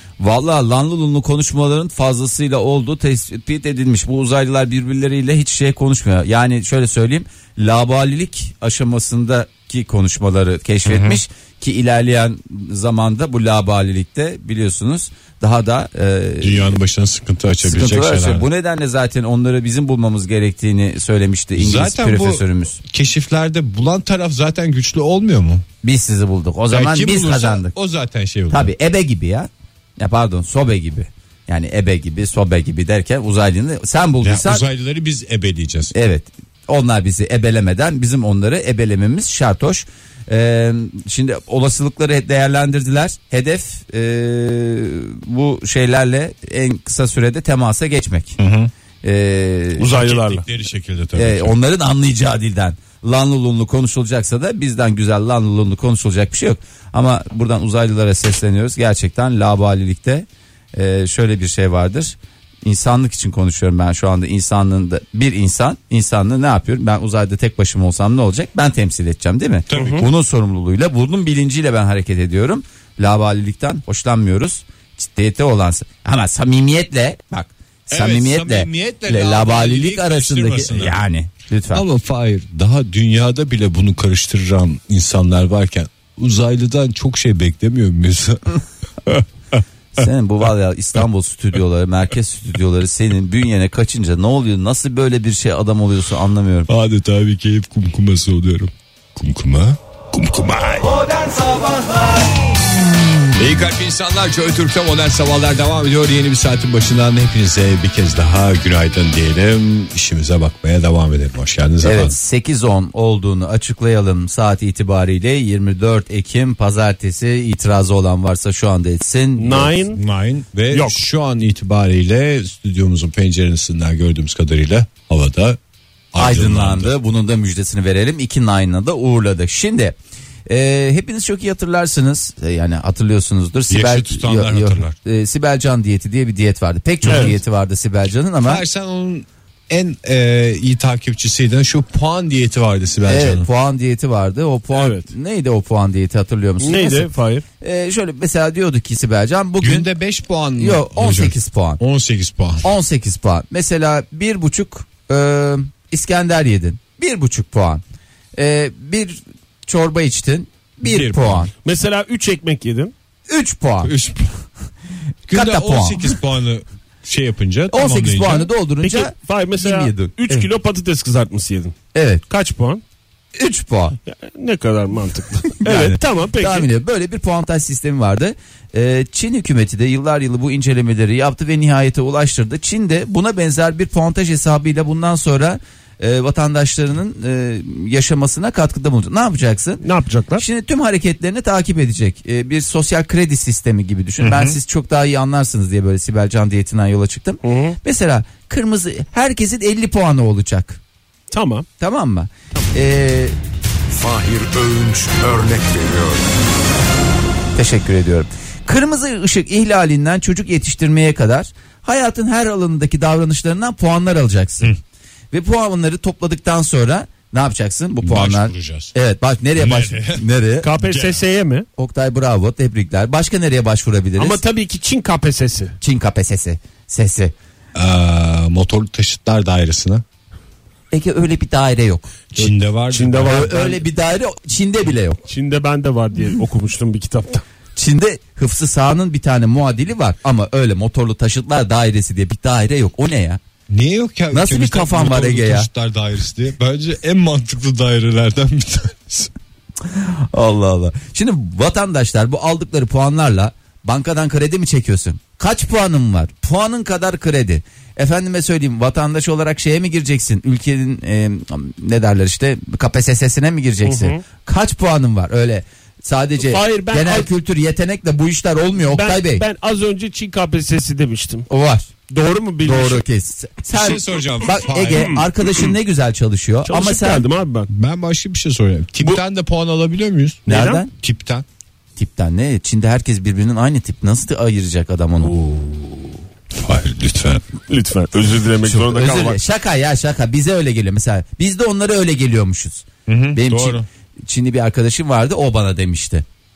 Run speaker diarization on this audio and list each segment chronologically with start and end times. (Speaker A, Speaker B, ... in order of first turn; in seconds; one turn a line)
Speaker A: 0.2-16.8
Speaker B: 10.8-11.2
Speaker B: 16.4-18.4
Speaker A: 17.6-22.8
Speaker B: 21.6-25.6
Speaker A: 25.8-27.7
Speaker B: 26.7-28.7
Speaker A: 28.5-34.6
Speaker B: 34.2-35.9
Speaker A: 35.9-48.4
Speaker B: 48.4-48.7
Speaker A: 49.0-49.9
Speaker C: 49.8-50.4
Speaker B: 49.9-51.5
Speaker A: 51.1-81.8
Speaker B: 69.7-70.1
Speaker C: 69.7-70.1
Speaker B: 77.9-81.0
Speaker B: 81.7-88.4
Speaker A: 89.9-96.7
Speaker B: 96.7-101.1
Speaker A: 101.2-101.8
Speaker B: 103.3-112.2
Speaker A: 111.8-119.8
Speaker C: 119.4-120.0
Speaker B: 119.9-125.6
Speaker C: 120.7-121.0
Speaker B: 126.1-126.9
Speaker A: 126.2-130.0
Speaker A: 130.5-138.6
Speaker B: 133.7-134.9
Speaker B: 137.0-137.4
Speaker C: 137.1-137.3
Speaker B: 138.4-143.5
Speaker A: 143.0-147.1
Speaker C: 144.7-145.1
Speaker C: 146.6-147.4
Speaker A: 147.6-149.9
Speaker B: 149.6-152.7
Speaker A: 150.6-151.8
Speaker A: 152.6-157.8
Speaker A: 158.3-161.5
Speaker B: 160.8-161.4
Speaker C: 161.6-162.9
Speaker A: 163.3-163.9
Speaker B: 163.8-164.3
Speaker B: 165.3-168.5
Speaker A: 165.3-166.2
Speaker A: 167.7-170.5
Speaker C: 168.8-171.7
Speaker A: 171.9-172.2
Speaker C: 172.3-172.8
Speaker A: 173.3-174.0
Speaker C: 174.1-176.7
Speaker A: 175.6-189.8
Speaker C: 189.8-190.4
Speaker A: 190.4-200.8
Speaker B: 194.2-194.6
Speaker C: 197.4-197.8
Speaker C: 201.3-201.7
Speaker A: 201.8-203.3
Speaker B: 203.9-206.2
Speaker A: 207.6-214.7
Speaker A: 215.3-220.7
Speaker B: 218.0-218.9
Speaker B: 219.6-220.2
Speaker C: 220.6-221.7
Speaker B: 220.8-221.2
Speaker A: 221.8-224.4
Speaker C: 224.2-225.8
Speaker A: 225.8-227.3
Speaker B: 227.7-230.0
Speaker A: 230.9-232.2
Speaker B: 232.3-233.5
Speaker C: 232.9-233.8
Speaker A: 233.2-235.2
Speaker C: 235.3-237.4
Speaker A: 237.8-243.4
Speaker B: 243.7-249.3
Speaker A: 244.3-245.7
Speaker A: 249.9-269.4
Speaker C: 263.8-264.2
Speaker C: 266.4-267.3
Speaker C: 268.9-271.5
Speaker A: 271.5-271.9
Speaker C: 272.1-273.0
Speaker A: 272.6-277.2
Speaker B: 273.7-275.1
Speaker C: 274.9-275.7
Speaker C: 276.7-277.7
Speaker B: 277.7-281.4
Speaker C: 280.4-280.8
Speaker A: 280.5-280.9
Speaker A: 282.0-285.3
Speaker B: 285.2-286.0
Speaker B: 286.5-287.4
Speaker C: 287.7-289.4
Speaker A: 288.6-296.2
Speaker B: 293.1-293.8